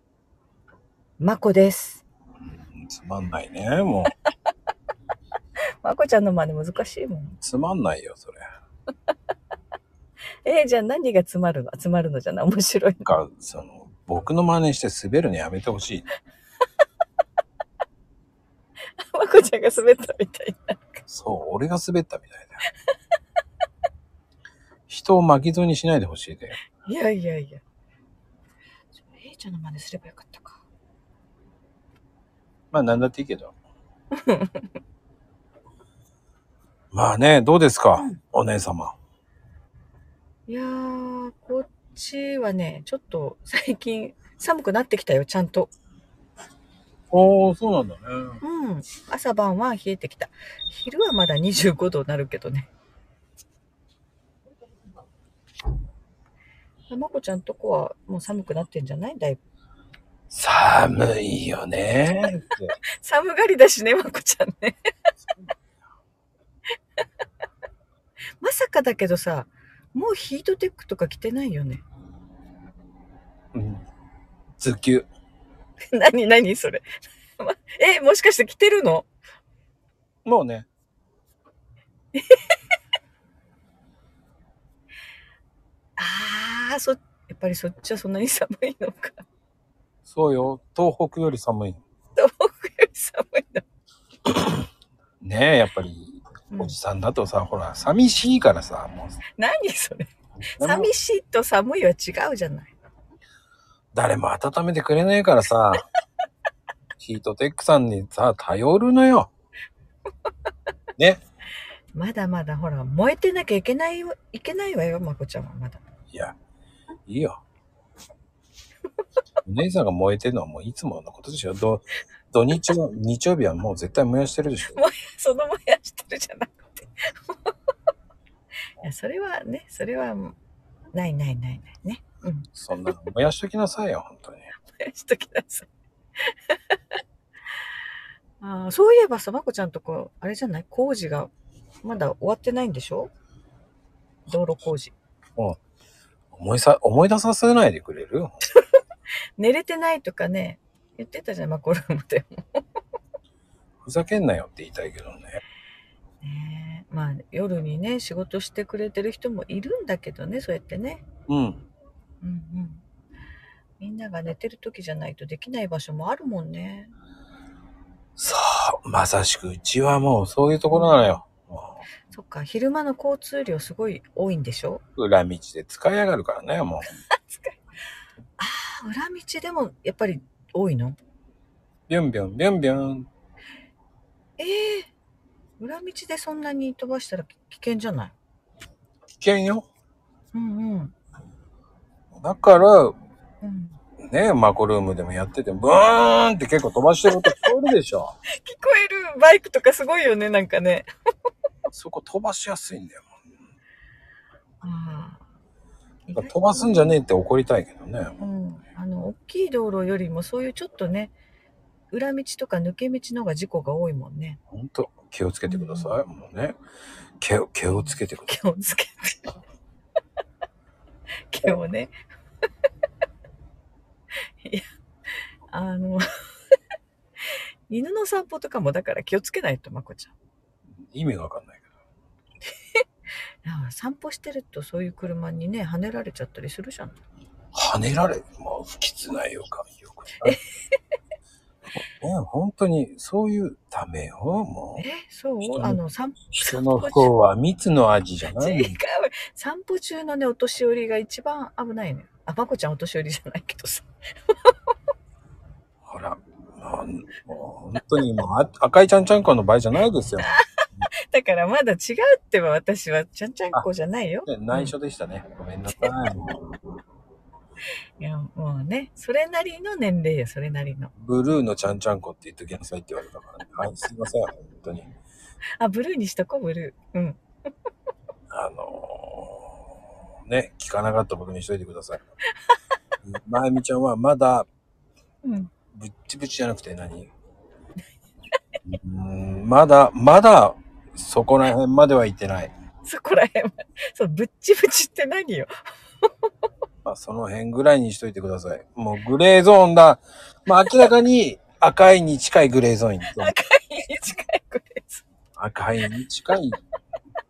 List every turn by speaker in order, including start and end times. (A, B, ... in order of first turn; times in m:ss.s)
0:01.2-0:02.0 A
0:02.7-0:04.2 B
0:05.8-0:07.4 A
0:07.4-0:08.5 B
0:10.4-0:13.2 A
0:13.1-0:16.1 B
0:19.0-0:20.9 A
0:21.1-0:22.6 B
0:24.9-0:26.6 B
0:26.8-0:27.6 A
0:29.0-0:30.6 A
0:32.7-0:33.6 B
0:34.1-0:34.7 A
0:36.9-0:39.0 B
0:40.5-0:45.7 A
0:47.1-0:48.4 B
0:48.4-0:52.7 A
0:56.9-0:59.4 A
1:00.3-1:02.8 B
1:02.2-1:04.9 A
1:05.2-1:05.5 B
1:08.4-1:11.8 A
1:13.5-1:13.8 B
1:14.6-1:15.1 B
1:15.9-1:16.9 A
1:17.4-1:19.1 A
1:20.2-1:20.7 B
1:22.1-1:22.6 A
1:26.0-1:29.2 A
1:30.1-1:31.8 B
1:32.2-1:33.6 A
1:35.2-1:39.2 B
1:36.5-1:36.8 A
1:39.4-1:42.7 A
1:40.4-1:40.9 B
1:43.9-1:45.8 B
1:47.0-1:49.3 B
1:51.9-1:55.8 A
1:56.1-1:56.4 B
1:57.1-1:57.4 B
1:59.4-2:04.8 B
2:04.7-2:07.5 A
2:08.8-2:10.4 A
2:10.9-2:12.5 A
2:12.5-2:14.5 B
2:14.7-2:17.0 A
2:17.5-2:17.8 A
2:18.4-2:21.3 A
2:21.8-2:23.1 A
2:24.3-2:25.0 A
2:26.3-2:28.3 B
2:29.4-2:32.8 A
2:33.8-2:35.4 B
2:36.2-2:41.1 A
2:41.3-2:41.6 B
2:42.2-2:42.8 A
2:43.8-2:46.9 A
2:48.2-2:51.8 B
2:50.7-2:51.0 A
2:52.1-2:54.8 A
2:55.0-2:56.9 B
2:57.2-2:57.6 A
2:58.4-3:01.0 A
3:01.9-3:03.1 B
3:04.4-3:04.9 A
3:05.6-3:08.2 A
3:09.2-3:09.7 B
3:10.3-3:11.0 A
3:12.1-3:13.0 B
3:13.4-3:13.8 A
3:14.0-3:18.2 B
3:17.1-3:17.4 A
3:18.3-3:20.9 A
3:21.7-3:23.1 B
3:24.6-3:25.2 A
3:26.1-3:27.0 A
3:26.1-3:28.2 B
3:28.2-3:31.1 A
3:31.9-3:34.4 A
3:34.5-3:36.6 B
3:35.5-3:36.0 A
3:37.2-3:38.4 B
3:37.7-3:39.4 A
3:41.3-3:42.0 A
3:44.4-3:44.7 A
3:45.5-3:46.6 A
3:47.2-3:50.1 A
3:50.7-3:51.7 B
3:53.4-3:57.0 A
3:57.5-4:00.4 B
4:00.2-4:00.8 A
4:01.9-4:04.9 B
4:04.8-4:07.1 A
4:05.4-4:08.8 B
4:08.3-4:14.6 A
4:15.8-4:20.9 B
4:20.2-4:24.8 A
4:24.2-4:26.6 B
4:28.0-4:30.9 A
4:31.0-4:34.9 B
4:35.6-4:37.2 A
4:38.3-4:39.6 B
4:40.3-4:42.0 B
4:42.5-4:42.7 A
4:43.0-4:44.5 B
4:45.2-4:45.5 A
4:45.7-4:47.1 B
4:48.6-4:52.5 B
4:52.8-4:56.3 A
4:56.8-5:03.3 B
5:00.6-5:00.9 A
5:03.0-5:05.0 A
5:05.4-5:06.6 B